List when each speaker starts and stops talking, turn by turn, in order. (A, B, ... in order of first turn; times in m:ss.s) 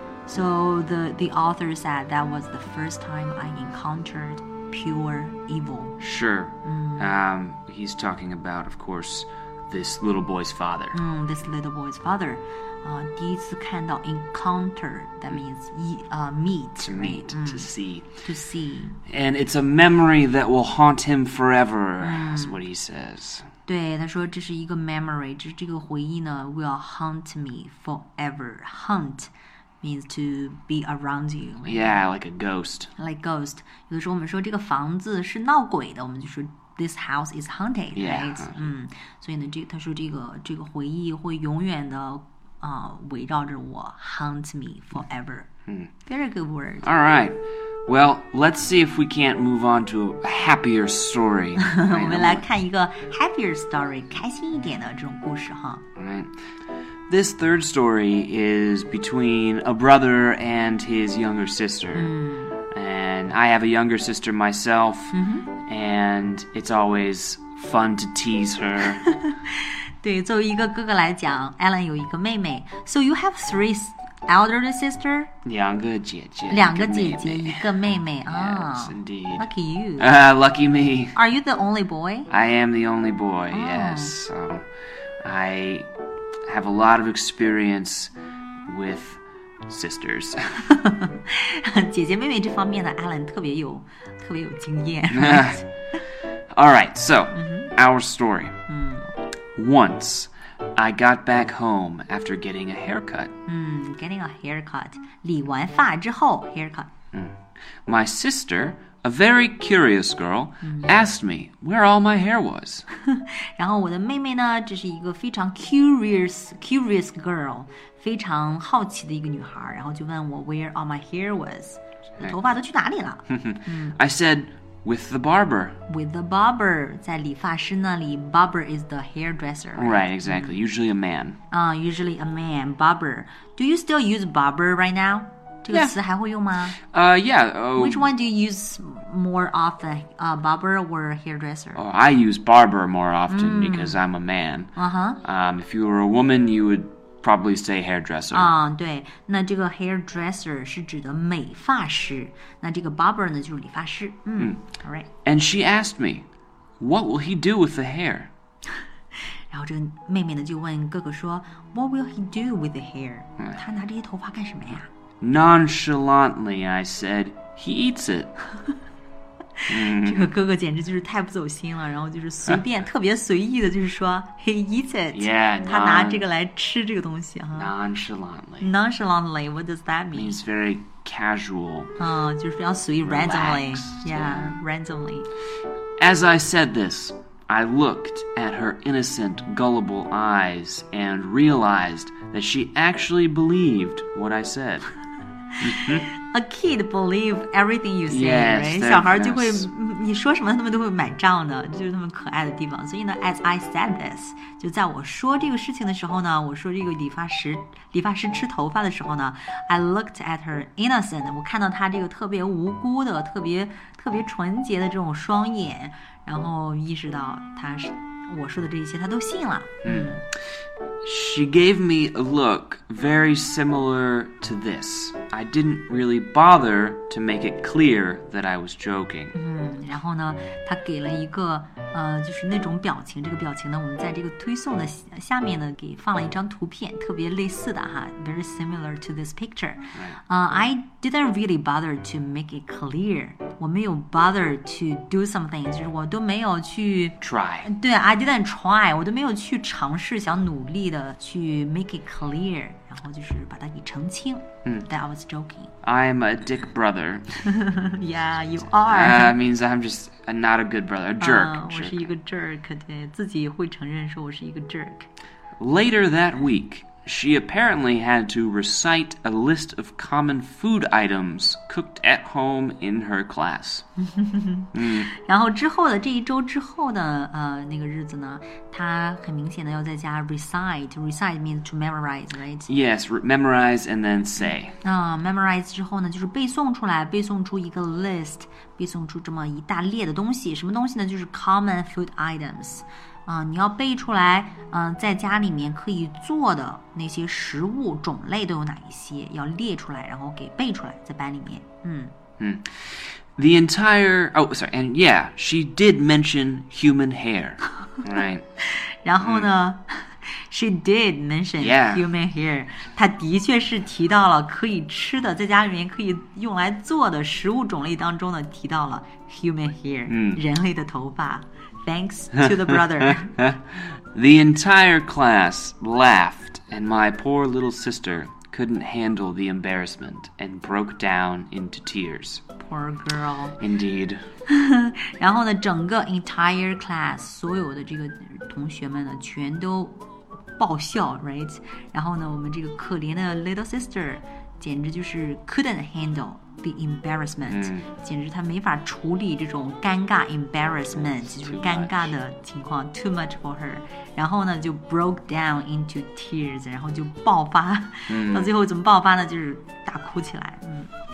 0:00.3-0:06.0 A
0:06.0-0:11.0 B
0:06.6-0:07.1 A
0:10.9-0:19.0 A
0:16.8-0:18.1 B
0:19.1-0:23.5 B
0:22.0-0:22.6 A
0:23.7-0:29.3 A
0:29.8-0:32.0 A
0:31.6-0:32.9 B
0:33.0-0:45.5 A
0:37.9-0:38.6 B
0:46.0-0:46.9 A
0:46.8-0:52.4 B
0:51.6-0:55.8 A
0:56.0-0:56.4 B
0:57.1-1:02.1 B
1:01.9-1:02.6 A
1:02.7-1:09.0 B
1:05.1-1:05.5 A
1:09.0-1:15.3 A
1:15.4-1:17.7 B
1:16.5-1:20.1 A
1:18.2-1:19.5 B
1:20.0-1:21.2 B
1:21.1-1:22.3 A
1:22.3-1:24.7 B
1:23.5-1:24.1 A
1:25.2-1:25.9 B
1:26.4-1:28.1 B
1:28.6-1:30.7 B
1:30.6-1:35.6 A
1:35.1-1:35.6 B
1:36.5-1:38.6 B
1:37.3-1:37.7 A
1:38.7-1:39.1 A
1:39.6-1:43.3 B
1:43.4-1:46.9 A
1:47.1-1:52.8 B
1:50.6-1:50.9 A
1:52.9-2:04.0 A
2:03.3-2:05.8 B
2:05.9-2:10.6 A
2:09.8-2:11.4 B
2:11.5-2:16.8 A
2:15.7-2:16.0 B
2:16.8-2:18.1 B
2:17.8-2:21.8 A
2:21.7-2:28.5 B
2:23.3-2:24.0 A
2:24.8-2:25.2 A
2:28.3-2:35.1 A
2:35.2-2:36.3 B
2:36.8-2:38.3 B
2:39.5-2:44.9 A
2:45.2-2:48.3 B
2:49.6-2:57.7 A
2:49.7-2:50.3 B
2:55.1-2:56.3 B
2:57.5-2:58.7 B
2:58.6-3:00.4 A
3:00.1-3:01.9 B
3:02.0-3:05.3 A
3:03.0-3:04.6 B
3:06.0-3:14.9 B
3:15.6-3:16.1 B
3:15.6-3:40.2 A
3:18.1-3:19.7 B
3:39.8-3:40.2 B
3:41.0-3:49.3 B
3:49.3-4:15.7 A
3:59.9-4:00.2 B
4:07.2-4:07.7 B
4:15.8-4:17.4 B
4:17.4-4:19.4 A
4:18.9-4:22.1 B
4:21.2-4:25.1 A
4:25.6-4:33.8 B
4:34.0-4:42.7 A
4:34.7-4:35.1 B
4:42.7-4:44.8 B
4:44.4-5:02.1 A
5:02.4-5:08.4 B
5:08.7-5:23.4 A
5:09.2-5:09.5 B
5:11.6-5:12.0 B
5:20.1-5:20.4 B
5:22.4-5:32.4 B
5:32.6-5:33.6 A
5:33.6-5:34.2 B
5:34.5-5:40.0 A
5:40.6-6:00.9 A
5:47.5-5:47.9 B
5:50.9-5:52.1 B
5:58.1-5:58.5 B